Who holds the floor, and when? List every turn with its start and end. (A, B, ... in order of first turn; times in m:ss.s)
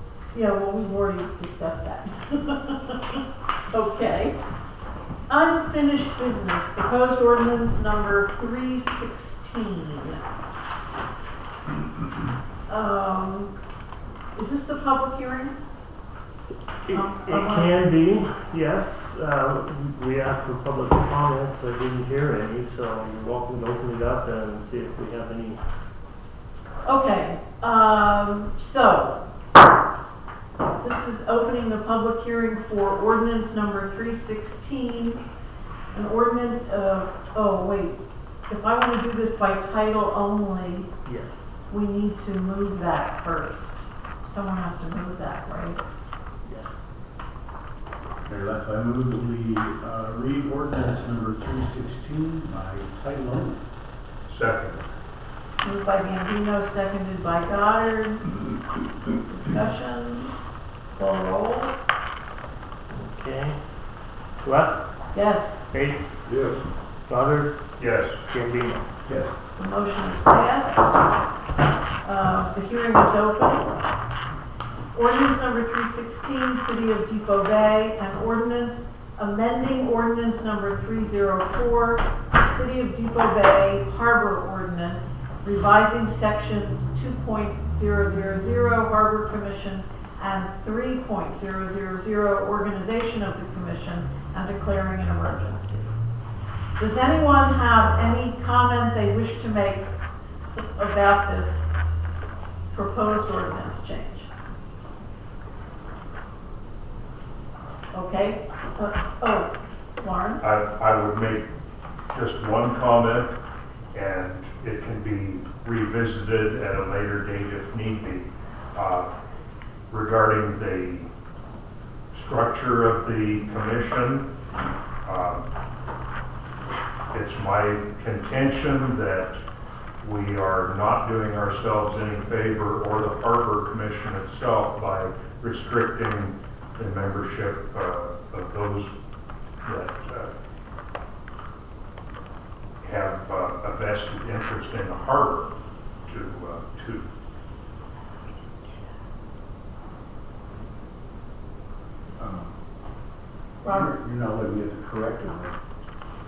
0:00.3-0:03.2 A
0:03.7-0:04.4 A
0:05.3-0:10.2 A
0:12.7-0:13.5 A
0:14.3-0:15.5 A
0:16.8-0:25.6 B
0:16.9-0:17.8 A
0:26.8-0:29.2 A
0:30.8-0:35.2 A
0:35.9-0:40.9 A
0:41.0-0:41.4 B
0:41.7-0:45.8 A
0:46.4-0:46.7 B
0:48.2-0:53.6 C
0:54.2-0:54.9 D
0:55.6-0:58.4 A
0:59.1-1:00.3 A
1:00.9-1:01.7 A
1:02.9-1:03.6 B
1:04.4-1:04.8 B
1:05.1-1:05.6 A
1:05.7-1:06.1 B
1:07.1-1:07.6 B
1:07.8-1:08.2 D
1:08.3-1:08.8 B
1:09.0-1:09.3 C
1:09.6-1:10.9 A
1:12.0-1:13.9 A
1:14.9-1:35.9 A
1:36.8-1:39.9 A
1:40.6-1:41.7 A
1:42.7-1:44.3 A
1:47.9-1:50.4 A
1:50.4-1:51.5 D
1:52.1-1:53.4 D
1:53.9-1:59.1 D
1:59.9-2:01.1 D
2:02.1-2:04.3 D
2:05.0-2:05.5 D
2:07.1-2:09.4 D
2:10.0-2:18.9 D
2:19.6-2:20.3 D
2:22.8-2:25.5 D
2:26.0-2:27.1 D
2:32.2-2:32.6 C
2:33.6-2:34.0 A
2:33.6-2:35.6 C